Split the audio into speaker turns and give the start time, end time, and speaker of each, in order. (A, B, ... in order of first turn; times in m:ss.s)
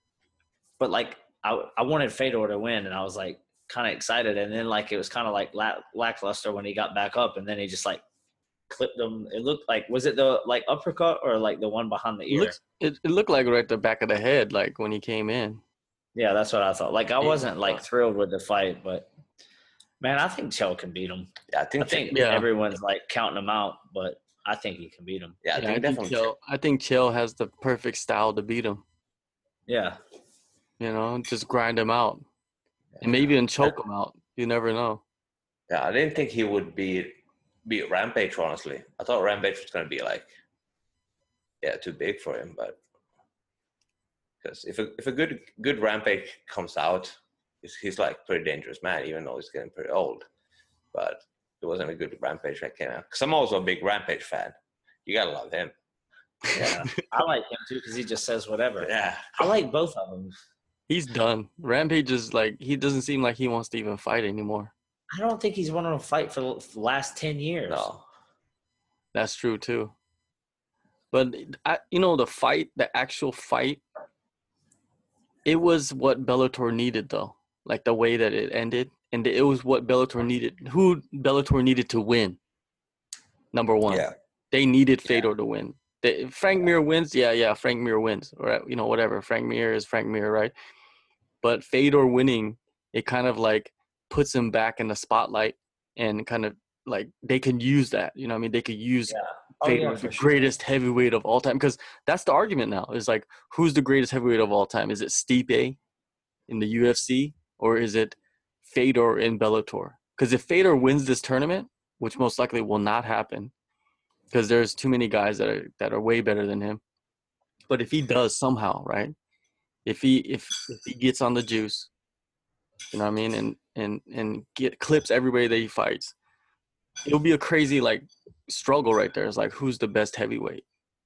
0:00.8-0:08.0 A
0:08.7-0:12.6 A
0:12.3-0:15.6 B
0:16.2-0:19.1 A
0:20.0-0:25.4 A
0:21.5-0:22.2 C
0:22.1-0:22.5 B
0:25.4-0:26.3 C
0:25.5-0:28.8 B
0:29.7-0:30.0 A
0:30.8-0:32.2 B
0:33.0-0:33.8 C
0:33.0-0:35.0 B
0:35.7-0:40.3 C
0:41.6-0:42.8 C
0:44.4-0:50.3 C
0:50.9-0:54.5 C
0:55.1-0:55.7 C
0:56.5-1:00.4 A
0:58.8-0:59.5 C
1:00.9-1:04.7 B
1:05.1-1:07.9 A
1:07.7-1:08.1 C
1:09.1-1:09.9 B
1:11.1-1:13.8 B
1:15.5-1:22.4 B
1:23.5-1:30.5 B
1:23.9-1:24.1 C
1:31.4-1:45.8 B
1:39.1-1:40.5 A
1:46.5-1:53.5 B
1:54.3-1:56.8 B
1:57.7-1:59.2 B
1:59.8-2:01.9 B
2:02.9-2:06.1 B
2:07.0-2:10.6 B